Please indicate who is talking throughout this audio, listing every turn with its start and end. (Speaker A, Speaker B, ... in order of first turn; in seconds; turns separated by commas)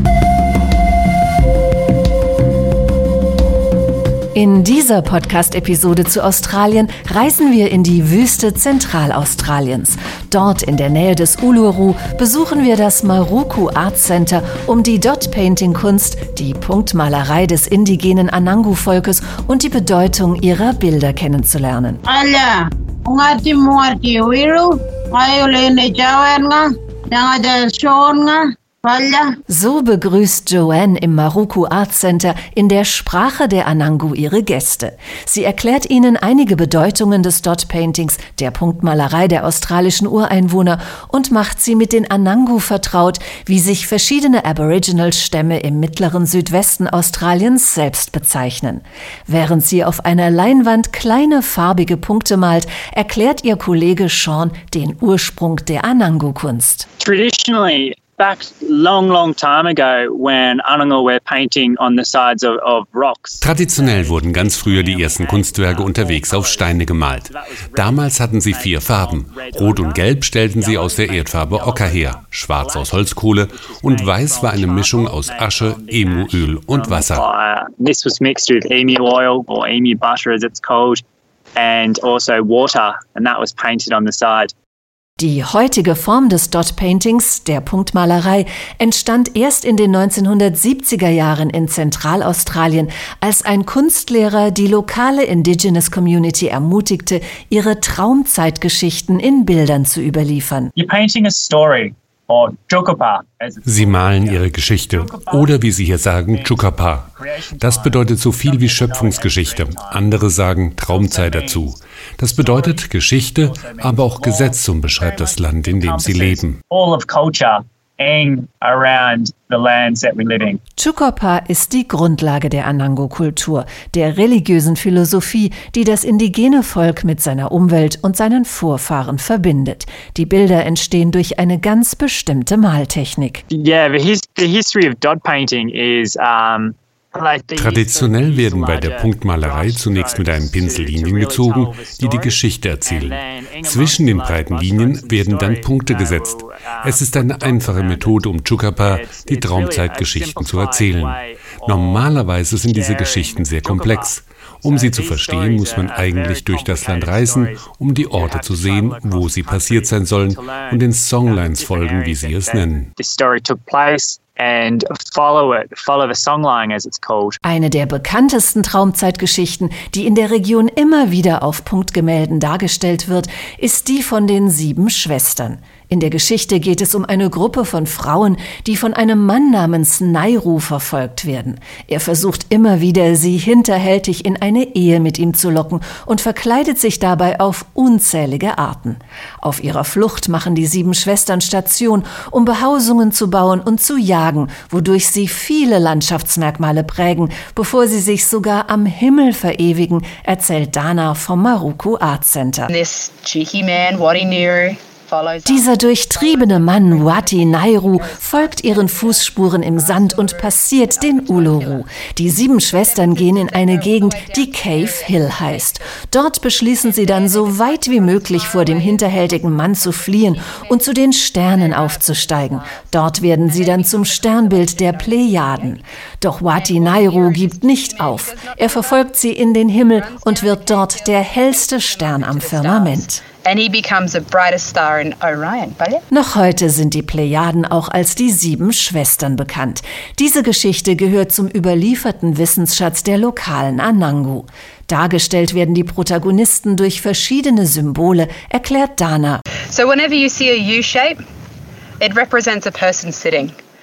Speaker A: 4.3-22.0, Speaker B: 22.1-29.3, Speaker A: 29.5-56.9, Speaker C: 57.0-81.0, Speaker D: 63.4-77.3, Speaker C: 81.5-84.5, Speaker A: 85.2-100.7, Speaker C: 100.8-105.7, Speaker D: 103.6-116.6, Speaker C: 106.3-110.3, Speaker C: 110.9-120.6, Speaker A: 120.8-133.4, Speaker C: 133.5-148.3, Speaker D: 137.6-162.9, Speaker C: 148.8-167.4, Speaker A: 167.4-202.7, Speaker E: 202.7-211.8, Speaker A: 205.4-233.2, Speaker E: 212.7-216.0, Speaker E: 216.7-220.8, Speaker E: 221.5-222.9, Speaker E: 223.4-225.8, Speaker E: 226.5-229.0, Speaker E: 229.9-236.0, Speaker A: 236.1-249.4, Speaker E: 249.7-251.2, Speaker E: 252.0-253.6